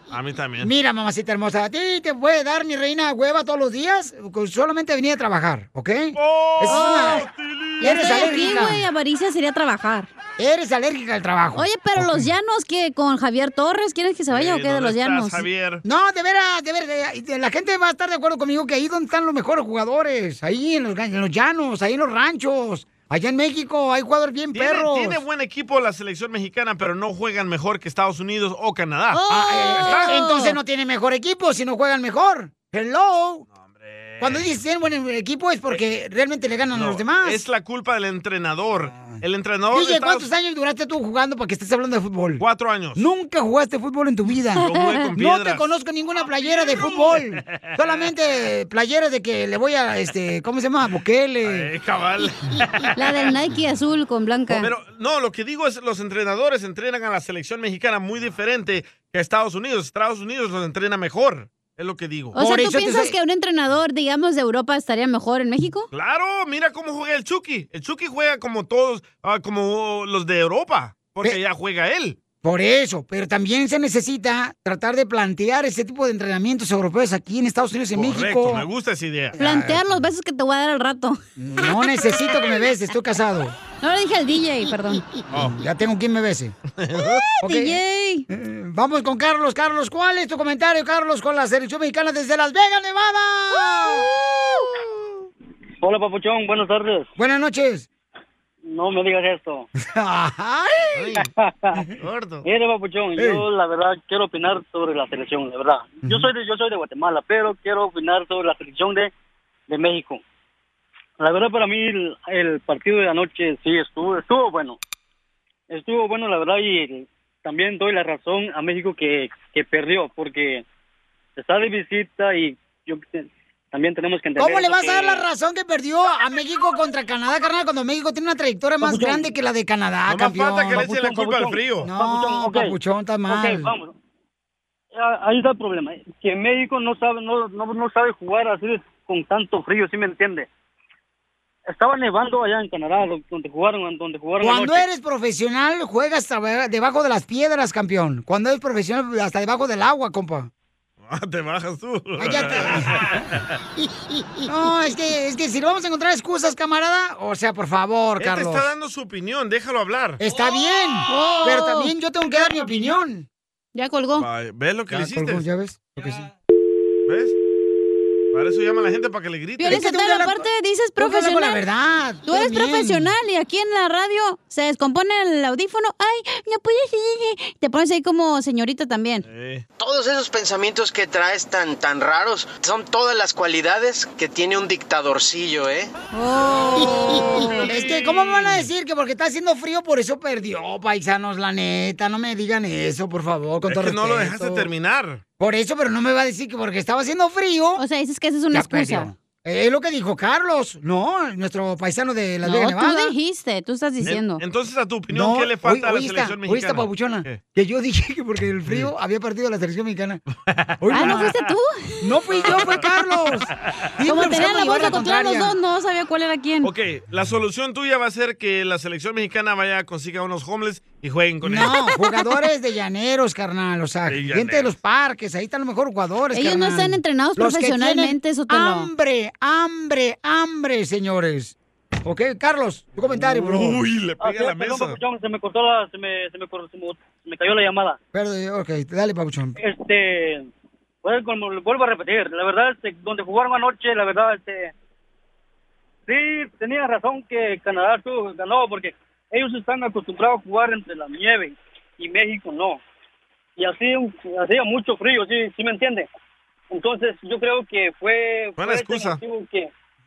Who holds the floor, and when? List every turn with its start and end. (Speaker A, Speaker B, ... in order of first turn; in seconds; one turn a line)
Speaker A: 0.1-0.7
Speaker B: 0.6-7.2
Speaker A: 6.2-8.7
Speaker C: 6.7-7.2
Speaker B: 7.8-8.8
Speaker C: 7.8-10.1
Speaker B: 10.4-12.3
Speaker C: 11.5-15.4
Speaker A: 14.3-15.8
Speaker B: 15.8-25.2
Speaker A: 24.5-30.1
Speaker C: 29.1-30.6
Speaker B: 29.3-33.4
Speaker A: 33.6-34.5
Speaker B: 34.2-37.4
Speaker A: 36.7-40.3
Speaker B: 39.7-42.4
Speaker A: 42.4-43.0
Speaker B: 43.0-51.7
Speaker A: 44.5-45.7
Speaker C: 44.7-45.0
Speaker A: 46.2-47.9
Speaker A: 51.4-52.9
Speaker C: 52.9-54.7
Speaker A: 54.5-62.4
Speaker B: 62.3-63.1
Speaker C: 62.3-65.9
Speaker A: 65.9-72.2
Speaker B: 72.4-78.7
Speaker A: 77.9-79.3
Speaker B: 79.3-79.9
Speaker C: 79.4-81.7
Speaker B: 81.4-83.5
Speaker C: 83.8-85.0
Speaker A: 85.3-85.6
Speaker B: 85.3-86.5
Speaker A: 86.8-87.2
Speaker C: 87.0-88.2
Speaker B: 87.4-87.8
Speaker B: 88.3-94.1
Speaker D: 95.8-97.1
Speaker B: 97.2-97.9
Speaker D: 98.7-99.7
Speaker B: 99.8-101.2
Speaker A: 101.0-101.3
Speaker D: 101.4-101.8
Speaker A: 102.0-102.4
Speaker D: 102.4-109.1
Speaker D: 109.7-110.2
Speaker D: 111.2-114.8
Speaker D: 115.7-120.6
Speaker D: 121.4-125.2
Speaker B: 124.4-131.0
Speaker D: 128.8-129.3
Speaker A: 130.1-131.9
Speaker D: 130.8-132.7
Speaker B: 131.8-133.7
Speaker D: 133.3-133.9
Speaker D: 134.9-140.5
Speaker D: 141.7-144.8
Speaker B: 144.4-150.5
Speaker A: 151.0-153.4
Speaker B: 152.2-153.1
Speaker B: 154.4-158.7
Speaker A: 158.2-160.2
Speaker B: 160.2-163.3
Speaker C: 161.1-161.9
Speaker C: 163.7-164.2
Speaker A: 164.2-165.4
Speaker B: 164.9-166.2
Speaker A: 167.1-167.3
Speaker A: 168.3-169.8
Speaker C: 169.6-171.6
Speaker B: 169.7-170.4
Speaker B: 171.0-173.1
Speaker C: 172.3-179.2
Speaker A: 179.2-179.6
Speaker E: 180.7-184.2
Speaker C: 186.1-187.7
Speaker A: 187.4-188.6
Speaker B: 187.6-194.7
Speaker A: 193.6-195.2
Speaker B: 195.4-197.8
Speaker C: 197.8-199.1
Speaker B: 198.5-203.1
Speaker C: 202.4-204.4
Speaker A: 204.0-207.4
Speaker B: 205.1-210.2
Speaker A: 210.5-211.3
Speaker B: 210.8-211.3
Speaker C: 210.9-212.9
Speaker B: 212.0-215.5
Speaker C: 214.0-216.7
Speaker A: 216.6-221.8
Speaker B: 221.4-233.8
Speaker C: 221.8-222.2
Speaker A: 224.1-224.7
Speaker C: 226.3-228.9
Speaker A: 233.1-235.0
Speaker D: 234.2-238.0
Speaker B: 238.1-239.6
Speaker D: 239.6-240.5
Speaker D: 241.0-244.7
Speaker D: 246.1-252.8
Speaker D: 253.6-256.1
Speaker D: 256.7-259.7
Speaker A: 258.6-259.2